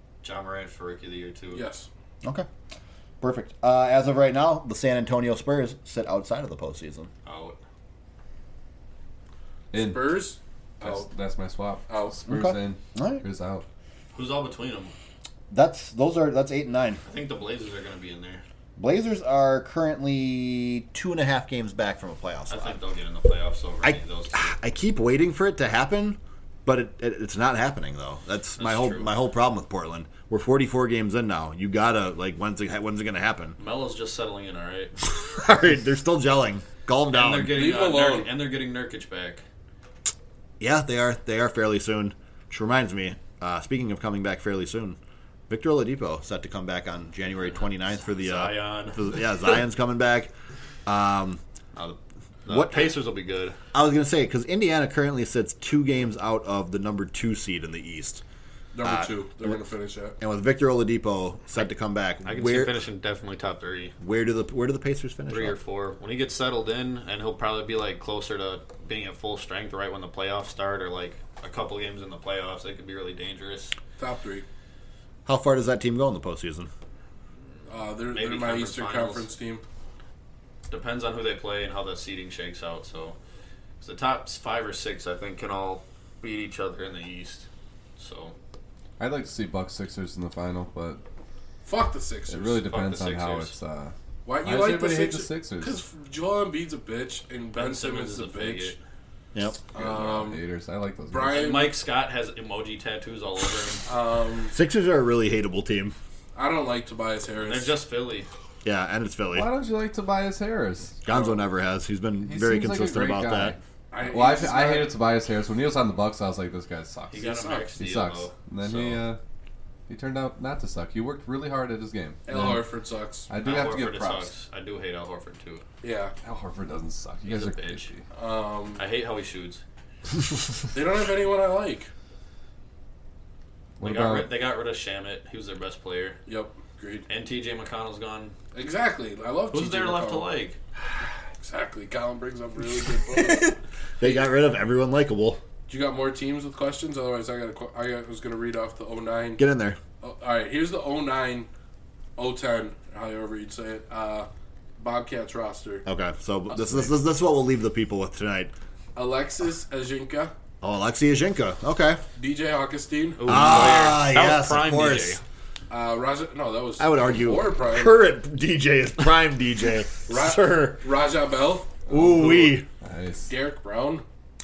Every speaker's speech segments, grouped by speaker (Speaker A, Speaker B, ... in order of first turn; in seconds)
Speaker A: 0.2-1.6, 7.2-7.6, 14.1-14.9, 17.0-18.4, 22.5-24.6, 28.6-29.1, 33.6-34.9, 37.1-39.4, 47.9-49.1, 51.8-53.6, 62.2-64.0, 65.3-73.8, 78.1-79.3, 80.7-83.2, 83.8-87.5, 88.0-88.3, 92.7-93.5, 97.6-98.8, 101.3-103.8, 107.4-108.3, 117.1-119.0, 123.4-125.7, 127.2-128.0, 128.8-129.6, 133.8-136.2, 137.1-138.3, 139.5-140.6, 163.2-165.2
Speaker B: 1.5-1.9, 9.8-11.1, 11.9-12.2, 37.5-38.3, 58.8-60.2, 74.0-74.5, 77.7-79.6, 91.7-92.6, 94.3-98.8, 99.7-100.4, 101.1-101.8, 103.9-104.5, 106.3-107.8, 111.1-111.5, 113.9-114.9, 117.2-117.7, 122.3-123.3, 125.8-126.1, 128.1-128.8, 130.7-131.9, 136.3-137.1, 138.5-140.3, 141.4-144.3, 145.7-149.4, 150.0-151.5, 152.2-155.8, 159.0-160.3, 162.2-163.6, 165.7-168.0, 170.1-171.7, 173.3-174.0
Speaker C: 3.2-7.1, 12.3-13.2, 15.5-17.0, 18.8-22.7, 23.8-33.6, 35.0-37.6, 40.6-45.0, 45.5-50.3, 50.9-51.4, 52.5-52.9, 53.7-58.2, 58.8-59.6, 60.2-62.8, 64.0-65.6, 75.3-76.7, 99.3-99.6, 104.5-106.0, 108.6-109.5, 111.0-113.6, 143.1-145.4, 149.4-149.8, 155.9-158.5, 160.6-162.0, 163.2-165.2, 166.8-170.8, 171.9-172.7
Speaker D: 9.7-10.3, 10.8-13.7, 89.0-91.0, 92.3-95.8, 99.7-101.5, 109.3-111.0, 112.2-119.2, 119.9-122.6, 123.3-124.3, 126.2-127.9, 133.8-134.3, 171.9-173.3